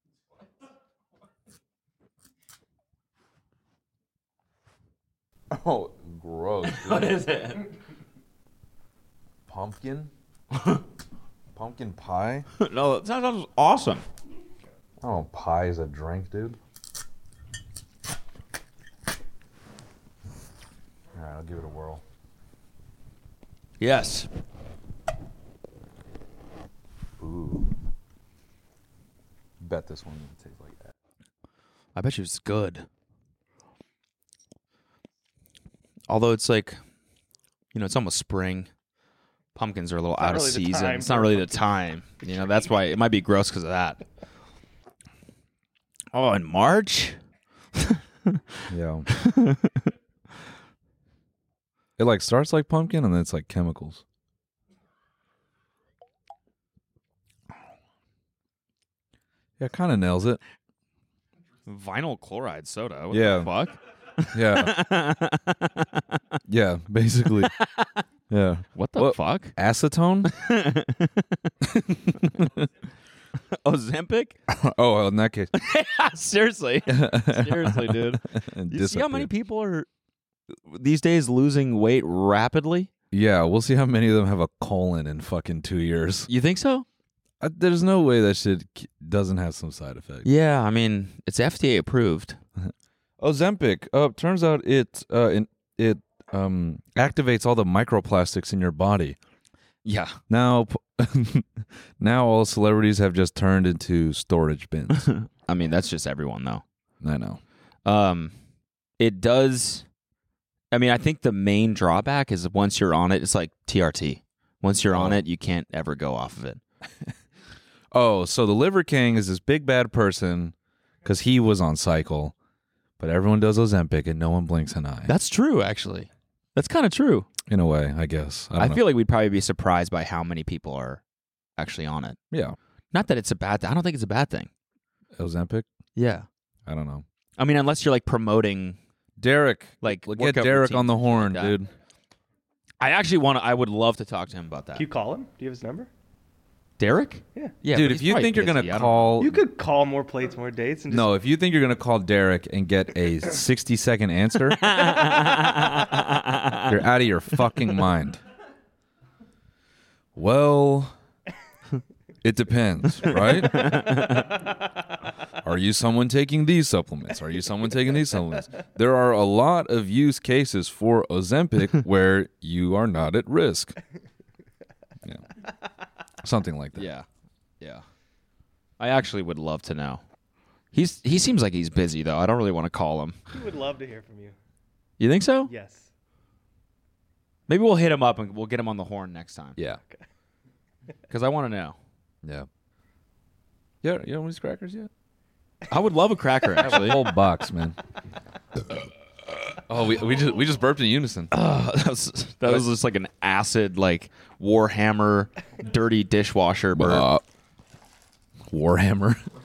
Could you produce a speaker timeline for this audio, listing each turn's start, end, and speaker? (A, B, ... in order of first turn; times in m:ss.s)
0:05.5-0:07.3 A
0:06.7-0:07.7 B
0:09.5-0:10.1 A
0:11.5-0:12.5 A
0:12.6-0:14.0 B
0:15.0-0:16.6 A
0:21.1-0:22.0 A
0:23.8-0:24.3 B
0:27.2-0:27.7 A
0:29.6-0:30.9 A
0:32.0-0:32.9 B
0:36.1-0:36.8 B
0:37.7-0:38.7 B
0:39.6-0:44.0 B
0:40.2-0:41.6 C
0:42.2-0:42.5 C
0:46.1-0:47.2 B
0:47.8-0:49.9 B
0:48.7-0:49.1 A
0:52.0-0:54.0 A
0:59.6-1:00.4 A
1:01.7-1:06.2 B
1:03.1-1:03.5 A
1:04.3-1:04.8 A
1:06.5-1:07.5 A
1:07.4-1:08.0 B
1:08.3-1:10.3 A
1:08.8-1:09.6 B
1:10.2-1:11.5 B
1:11.6-1:12.6 A
1:13.4-1:14.4 B
1:14.5-1:15.5 A
1:15.5-1:19.9 B
1:16.9-1:19.3 A
1:20.7-1:22.9 B
1:23.1-1:26.3 A
1:26.3-1:26.9 B
1:27.4-1:30.3 A
1:30.2-1:32.4 B
1:32.6-1:39.2 A
1:39.8-1:40.2 B
1:40.3-1:45.1 A
1:44.9-1:46.6 B
1:47.0-1:47.4 A
1:47.8-1:48.3 B
1:49.0-1:49.8 B
1:50.7-1:56.6 B
1:54.9-1:55.2 A
1:57.9-2:02.4 A
2:03.0-2:05.1 A
2:05.1-2:07.3 B
2:07.5-2:08.8 A
2:08.6-2:11.0 B
2:11.6-2:12.2 B
2:12.3-2:12.6 A
2:12.9-2:14.5 B
2:15.2-2:15.7 A
2:16.0-2:16.3 B
2:16.7-2:17.0 A
2:17.4-2:18.8 B
2:19.2-2:21.7 A
2:19.8-2:21.6 B
2:22.8-2:24.8 B
2:24.8-2:25.9 C
2:26.8-2:29.2 B
2:27.7-2:29.4 A
2:29.2-2:31.1 C
2:30.9-2:34.8 A
2:34.6-2:36.8 B
2:36.7-2:38.2 A
2:40.2-2:41.0 A
2:42.2-2:43.8 A
2:43.1-2:44.5 B
2:45.4-2:53.8 A
2:56.2-2:56.9 A
2:56.8-2:57.1 B
2:58.8-3:00.0 B
3:00.7-3:03.2 B
3:03.3-3:04.4 C
3:05.0-3:05.5 B
3:05.5-3:05.9 C
3:07.5-3:09.6 B
3:11.1-3:11.8 B
3:13.8-3:14.9 A
3:15.7-3:17.0 B
3:16.6-3:17.8 A
3:19.5-3:21.3 A
3:21.3-3:27.1 B
3:26.8-3:27.2 A
3:28.5-3:29.3 A